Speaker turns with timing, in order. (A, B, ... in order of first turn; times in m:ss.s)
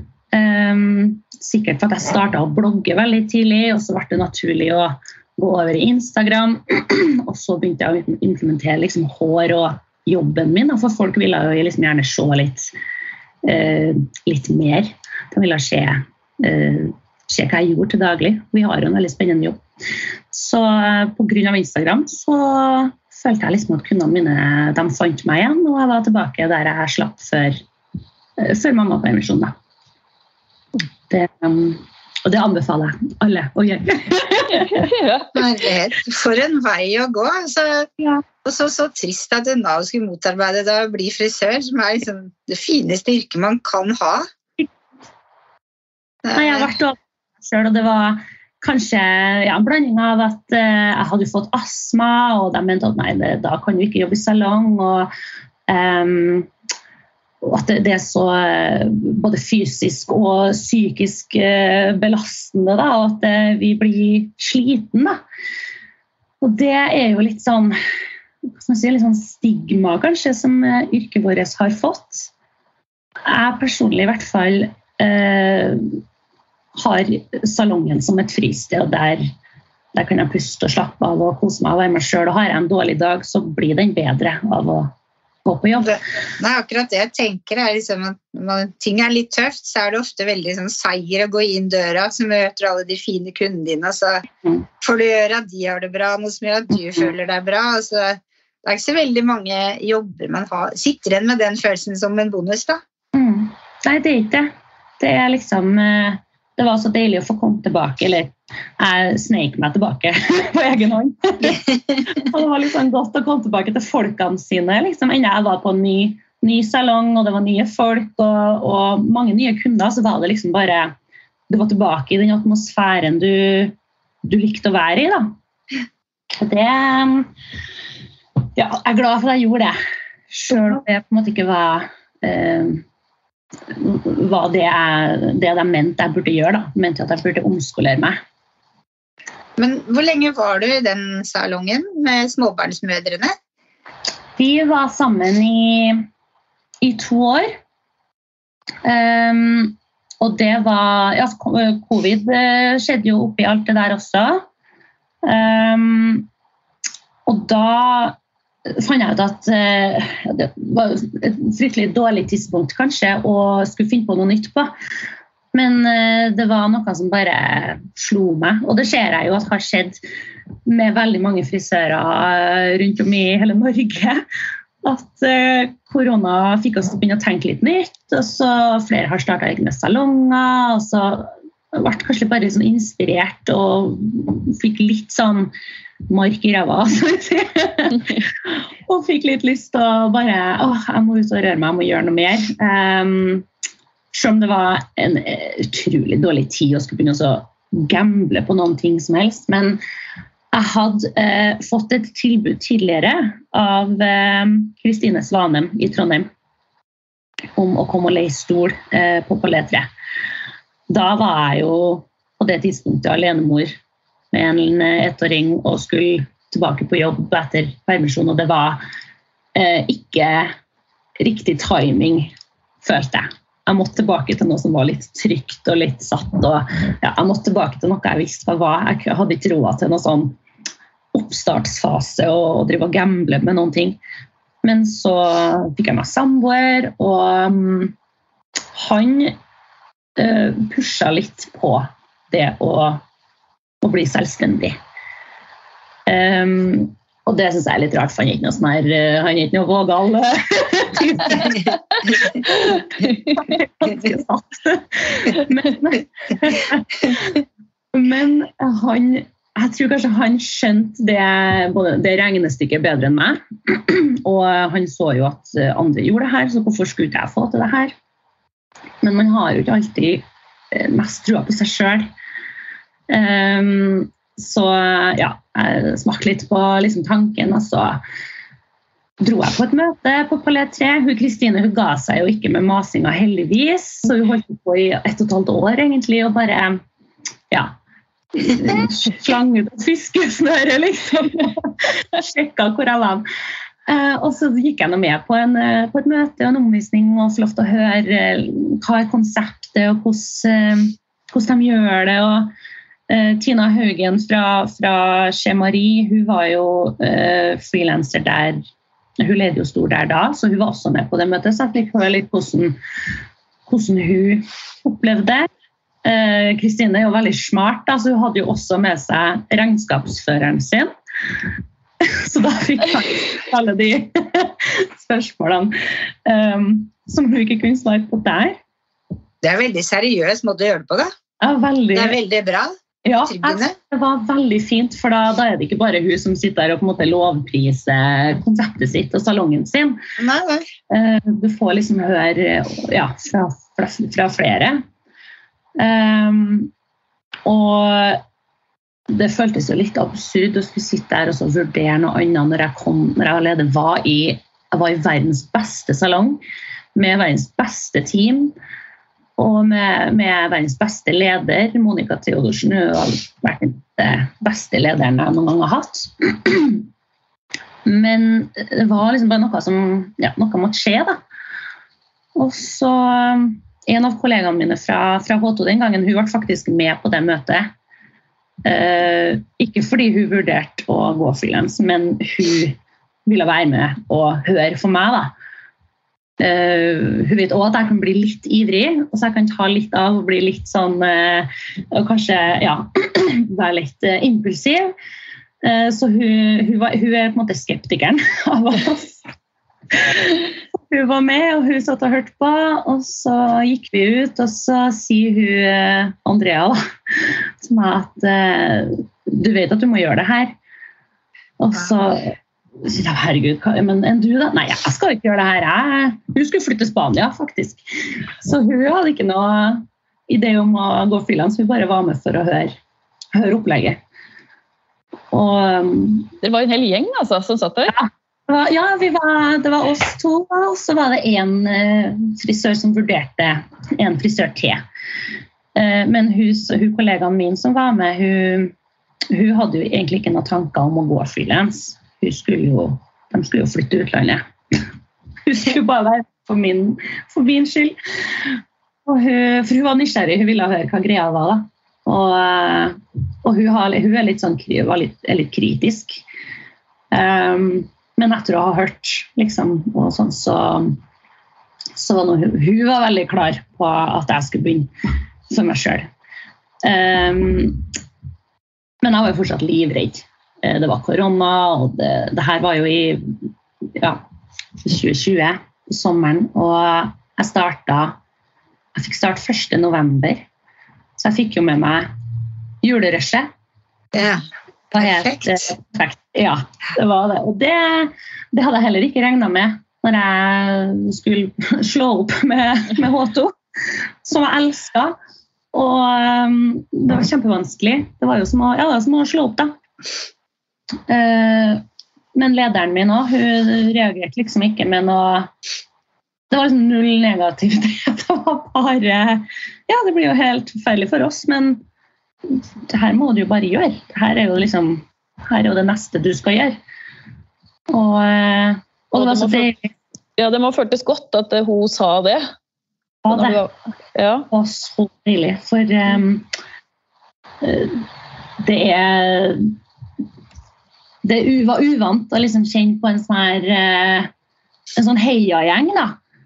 0:00.3-0:12.7 A
0:13.4-0:19.6 A
0:20.3-0:27.6 A
0:28.4-0:29.5 A
0:31.1-0:34.9 A
0:34.7-0:35.3 B
0:35.4-0:37.9 C
0:38.4-0:44.3 C
0:46.2-0:46.7 C
0:46.3-0:55.1 A
0:55.7-0:56.5 A
0:57.4-1:05.2 A
1:06.4-1:07.8 A
1:08.6-1:12.3 A
1:13.3-1:15.8 A
1:16.8-1:19.3 A
1:19.9-1:24.9 A
1:25.4-1:26.0 A
1:25.8-1:34.2 C
1:34.8-1:42.8 C
1:43.1-2:00.9 A
2:01.5-2:05.3 A
2:06.4-2:07.3 A
2:08.6-2:09.7 A
2:10.3-2:12.8 A
2:13.7-2:18.2 A
2:19.6-2:23.4 C
2:24.4-2:26.0 A
2:26.8-2:27.6 A
2:28.8-2:34.4 A
2:35.2-2:36.3 A
2:37.3-2:44.7 A
2:45.5-2:50.0 A
2:50.7-2:54.2 A
2:54.8-3:05.5 A
3:06.1-3:13.5 A
3:14.1-3:19.8 A
3:20.5-3:26.3 A
3:27.6-3:29.9 A
3:30.9-3:33.7 A
3:34.3-3:38.8 A
3:39.6-3:40.5 A
3:41.2-3:50.4 A
3:51.1-3:54.0 A
3:54.6-3:57.9 A
3:58.8-3:59.4 A
4:00.2-4:03.0 A
4:03.8-4:04.8 A
4:06.1-4:17.4 A
4:17.9-4:27.9 A
4:29.0-4:32.1 A
4:33.1-4:38.0 A
4:39.2-4:46.8 A
4:47.5-4:47.8 A
4:48.3-4:53.2 A
4:53.9-5:02.5 A
5:03.1-5:08.6 A
5:09.2-5:12.8 A
5:13.7-5:15.5 A
5:16.0-5:20.9 A
5:22.0-5:28.6 A
5:29.4-5:31.1 C
5:31.4-5:32.2 A
5:32.0-5:32.7 C
5:33.0-5:40.0 A
5:33.3-5:33.8 C
5:40.2-5:40.7 C
5:40.9-5:44.8 A
5:45.8-5:46.7 A
5:47.4-5:48.2 A
5:49.1-5:56.4 A
5:57.0-5:58.5 A
5:59.4-6:06.9 A
6:07.8-6:11.2 A
6:12.4-6:17.7 A
6:18.6-6:25.3 A
6:26.4-6:34.9 A
6:35.6-6:39.2 A
6:39.9-6:50.6 A
6:51.6-7:02.7 A
7:03.4-7:04.0 A
7:05.3-7:06.3 A
7:06.4-7:08.0 B
7:07.9-7:14.8 A
7:15.8-7:18.7 A
7:19.3-7:24.8 A
7:25.5-7:36.2 A
7:37.1-7:41.0 A
7:42.0-7:44.9 A
7:45.5-7:46.1 A
7:46.8-7:47.8 A
7:49.0-7:54.2 A
7:54.8-7:58.2 A
7:59.0-8:00.4 A
8:01.2-8:02.1 A
8:02.8-8:03.5 A
8:04.1-8:04.4 C
8:04.9-8:15.2 A
8:05.0-8:05.7 C
8:15.7-8:19.7 A
8:21.1-8:21.8 A
8:22.3-8:25.5 A
8:26.5-8:31.8 A
8:32.5-8:36.8 A
8:37.9-8:39.9 A
8:39.1-8:39.7 B
8:40.4-8:42.5 B
8:43.2-8:43.6 A
8:43.3-8:44.5 B
8:44.5-8:46.5 A
8:47.6-8:48.1 A
8:48.6-8:49.7 A
8:51.2-8:54.3 A
8:55.0-8:56.2 A